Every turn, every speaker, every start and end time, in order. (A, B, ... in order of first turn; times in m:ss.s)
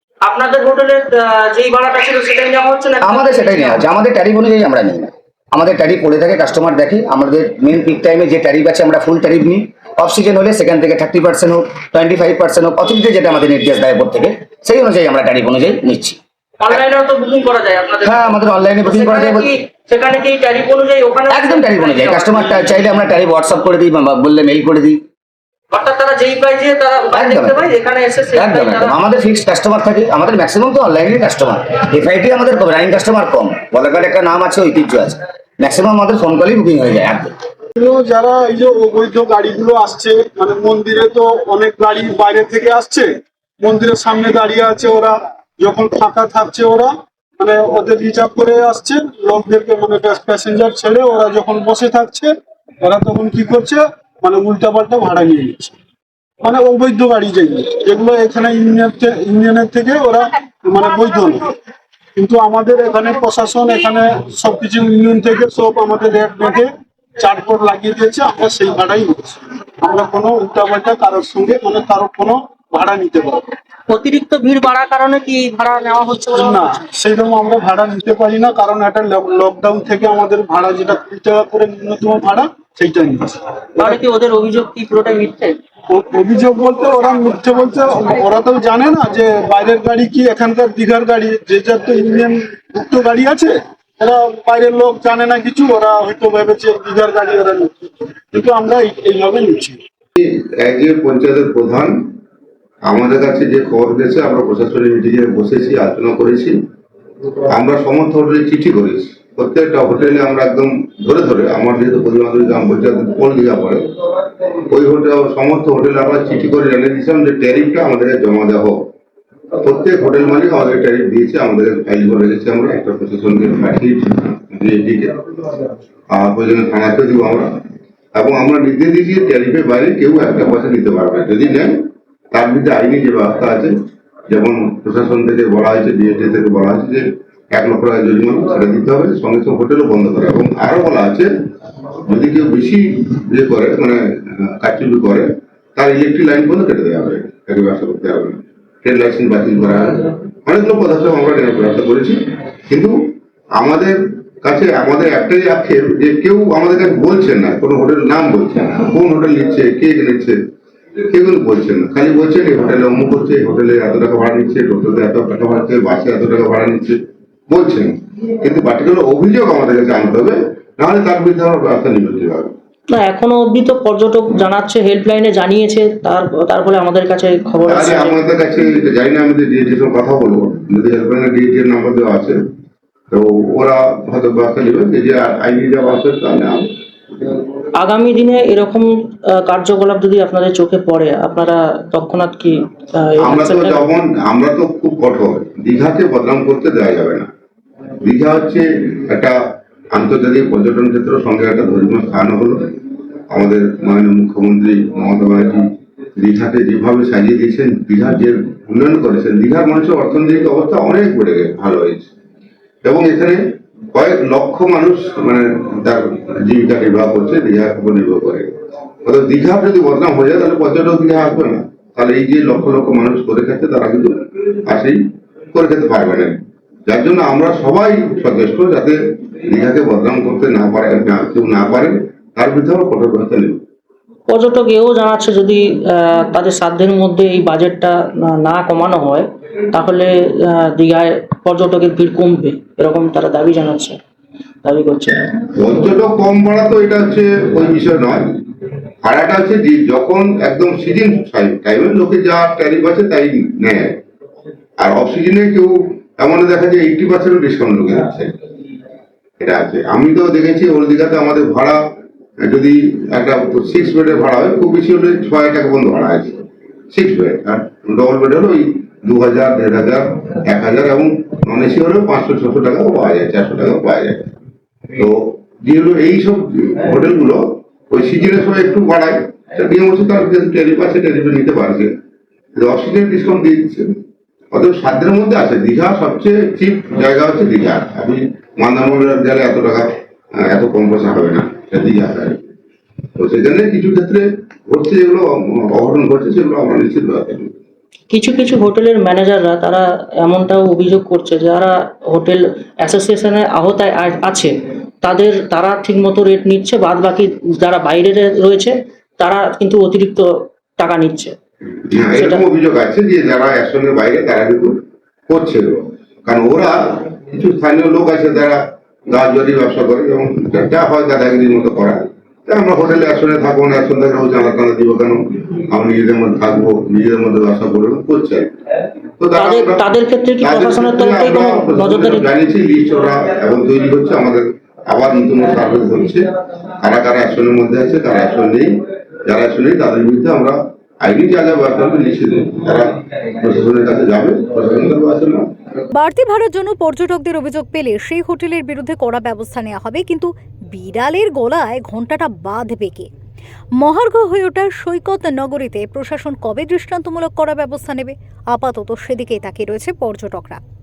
0:00.2-0:03.8 A
0:03.0-0:16.2 B
0:16.6-0:22.9 A
0:18.0-0:19.5 B
0:21.3-0:25.0 B
0:25.7-0:29.0 A
0:27.1-0:27.5 B
0:28.3-0:37.3 B
0:37.8-0:43.1 C
0:43.6-0:55.7 C
0:56.4-1:01.5 C
1:02.2-1:06.7 C
1:07.2-1:13.4 C
1:13.9-1:16.8 A
1:16.3-1:24.0 C
1:23.8-1:25.6 A
1:25.9-1:37.7 C
1:38.3-1:39.8 C
1:40.2-1:42.0 D
1:42.8-1:46.6 D
1:47.5-1:53.9 D
1:54.7-1:58.8 D
1:59.6-2:05.2 D
2:06.1-2:07.6 D
2:08.2-2:11.7 D
2:12.3-2:13.8 D
2:14.3-2:21.3 D
2:22.0-2:32.2 D
2:32.7-2:33.0 D
2:33.6-2:40.4 D
2:41.1-2:52.6 D
2:52.9-2:58.2 A
2:57.7-3:02.4 D
3:03.1-3:06.7 D
3:07.8-3:08.9 A
3:09.4-3:13.8 A
3:13.2-3:17.3 D
3:18.0-3:19.4 D
3:19.9-3:22.7 D
3:23.3-3:25.6 D
3:26.2-3:32.1 D
3:32.8-3:38.5 D
3:39.0-3:45.0 D
3:45.5-3:46.3 D
3:46.8-3:53.6 D
3:54.3-4:04.0 A
4:04.6-4:05.2 A
4:05.4-4:08.2 D
4:09.0-4:14.0 D
4:14.8-4:18.3 D
4:19.4-4:21.8 D
4:22.4-4:34.2 D
4:35.0-4:41.9 D
4:42.6-4:43.9 D
4:44.5-4:49.9 D
4:50.4-4:52.4 D
4:53.2-4:57.5 D
4:58.1-5:04.5 A
5:05.0-5:11.3 A
5:11.9-5:14.7 D
5:12.2-5:12.4 A
5:15.3-5:28.5 D
5:29.2-5:29.8 D
5:29.3-5:32.4 A
5:30.4-5:38.7 D
5:39.3-5:45.4 D
5:45.9-5:53.1 E
5:53.8-6:00.6 E